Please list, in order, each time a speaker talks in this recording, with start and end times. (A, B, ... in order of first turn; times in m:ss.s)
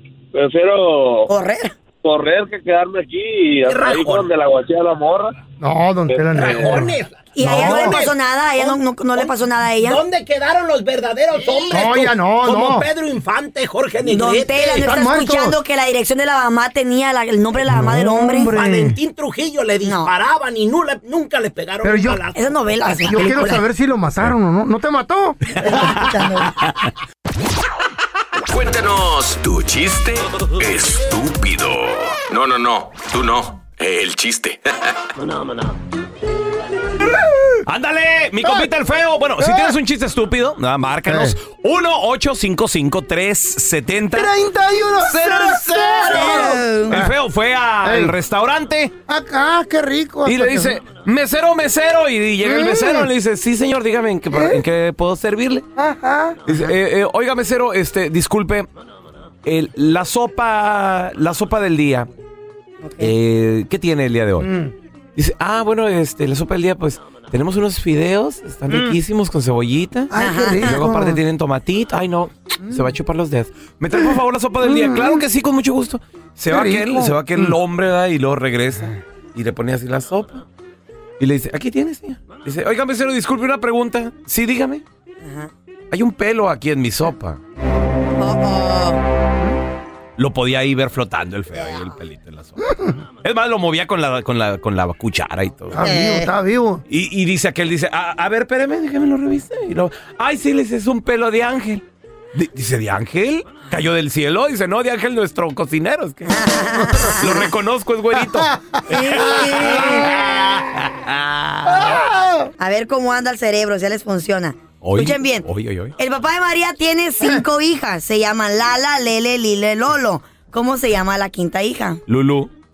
0:00.3-0:01.3 A
0:01.3-0:01.7 B
0:02.0-0:05.4 A
0:03.6-0:04.3 C
0:05.6-0:08.0 D
0:06.1-0:06.7 A
0:06.3-0:14.9 C
0:07.4-0:10.0 B
0:11.7-0:12.9 D
0:14.0-0:18.5 B
0:14.7-0:15.6 D
0:17.6-0:19.0 D
0:18.5-0:22.6 C
0:19.8-0:20.1 B
0:21.8-0:22.2 D
0:22.4-0:23.6 B
0:23.0-0:25.4 D
0:25.6-0:26.5 B
0:25.7-0:26.0 E
0:28.5-0:34.9 F
0:37.7-0:44.3 E
0:39.4-0:39.8 D
0:41.1-0:41.4 D
0:44.1-0:47.1 D
0:45.0-0:46.2 E
0:46.0-0:47.0 B
0:46.9-0:48.9 E
0:47.8-0:48.2 D
0:49.1-0:50.8 D
0:50.2-0:55.7 E
0:52.4-0:53.1 D
0:54.3-0:54.6 D
0:55.8-0:56.6 D
0:56.5-0:58.7 E
0:59.4-1:02.1 E
1:02.8-1:03.1 B
1:03.0-1:04.5 E
1:04.4-1:04.7 D
1:05.2-1:20.4 E
1:08.7-1:09.0 D
1:10.1-1:11.2 D
1:10.2-1:10.8 B
1:14.6-1:15.2 D
1:16.5-1:17.6 D
1:21.2-1:24.8 E
1:25.2-1:25.5 B
1:25.9-1:27.4 E
1:28.2-1:29.0 B
1:30.2-1:32.6 E
1:33.2-1:35.8 E
1:35.7-1:36.8 D
1:35.8-1:36.3 B
1:36.9-1:41.8 E
1:42.3-1:46.4 E
1:46.3-1:47.5 B
1:47.1-1:52.0 E
1:48.2-1:50.1 D
1:48.9-1:50.1 B
1:51.6-1:52.5 D
1:52.6-2:02.0 B
1:54.8-1:56.0 E
2:02.1-2:02.5 E